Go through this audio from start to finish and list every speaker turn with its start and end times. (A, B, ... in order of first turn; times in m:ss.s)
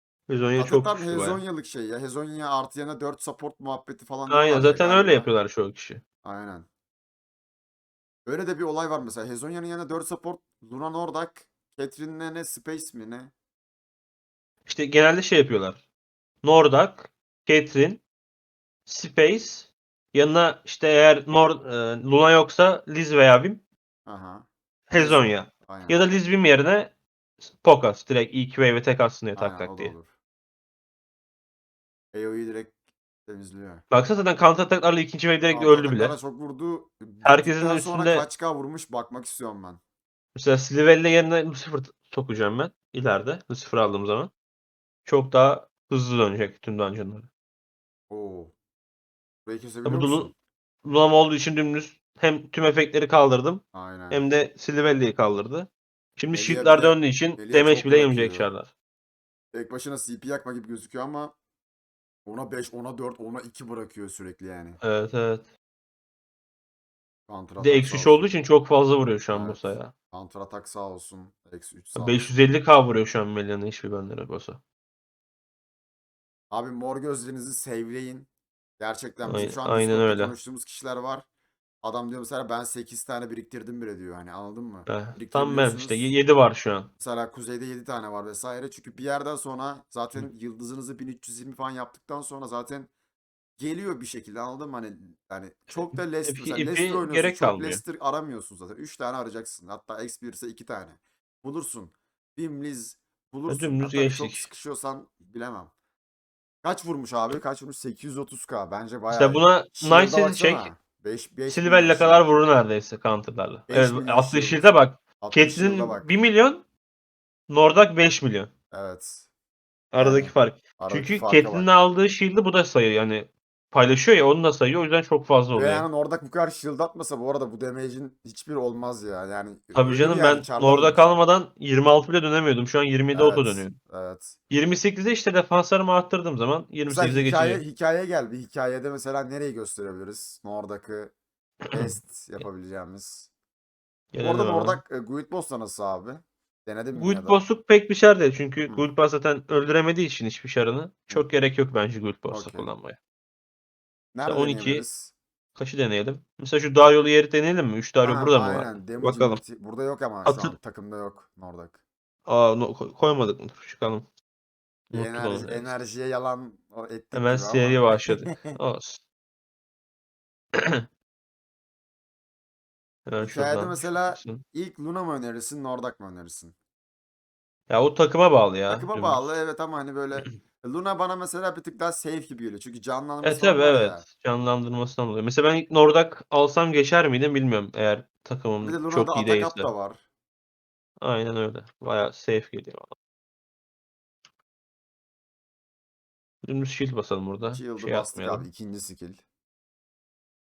0:00.3-0:01.4 A
0:00.6-0:05.3 B
0:04.3-0:06.0 A
0:06.2-0:06.7 B
0:08.3-0:13.3 B
0:14.7-0:15.8 A
0:16.4-0:18.0 A
0:18.9-0:23.6 A
0:24.1-0:26.0 B
0:24.9-0:26.9 A
0:27.4-0:29.9 A
0:29.4-0:30.1 B
0:32.1-0:32.7 B
0:33.3-0:33.8 B
0:33.9-0:36.2 A
0:35.5-0:39.8 B
0:37.2-0:38.2 A
0:40.4-0:44.3 A
0:45.1-0:47.3 A
0:48.1-0:48.5 B
0:49.5-0:50.3 B
0:49.8-0:50.3 A
0:50.8-0:58.7 A
0:53.7-0:54.2 B
0:56.3-0:58.5 B
0:59.5-1:01.3 B
1:02.3-1:04.8 B
1:04.8-1:05.5 A
1:07.3-1:08.3 B
1:07.6-1:09.9 A
1:09.3-1:12.3 B
1:12.0-1:14.6 A
1:16.5-1:21.3 B
1:19.3-1:20.3 A
1:21.8-1:26.1 B
1:24.9-1:26.9 A
1:27.0-1:32.9 B
1:33.6-1:45.7 B
1:35.9-1:37.8 A
1:43.5-1:44.5 A
1:46.6-1:52.2 B
1:49.1-1:50.7 A
1:51.5-1:56.6 A
1:53.7-1:54.7 B
1:55.2-1:56.1 B
1:57.5-1:58.5 A
1:58.7-1:59.3 B
1:59.9-2:05.9 A
2:00.0-2:01.7 B
2:05.5-2:11.1 B
2:09.7-2:13.8 A
2:13.1-2:14.4 B
2:14.5-2:17.6 A
2:16.9-2:21.1 B
2:21.7-2:21.9 A
2:21.7-2:23.3 B
2:24.1-2:24.8 A
2:24.2-2:27.4 B
2:27.0-2:33.0 A
2:32.3-2:32.7 B
2:34.1-2:35.1 B
2:34.2-2:34.8 A
2:35.6-2:39.4 A
2:38.0-2:41.8 B
2:40.2-2:40.6 A
2:42.3-2:44.1 A
2:44.9-2:48.6 B
2:44.9-2:45.8 A
2:47.1-2:49.0 A
2:50.5-2:50.8 A
2:53.1-2:54.4 A
2:53.2-2:56.5 B
2:57.7-2:59.4 A
2:58.7-3:04.0 B
3:03.2-3:09.7 A
3:08.6-3:10.0 B
3:11.0-3:12.9 A
3:16.4-3:18.5 A
3:17.5-3:19.2 B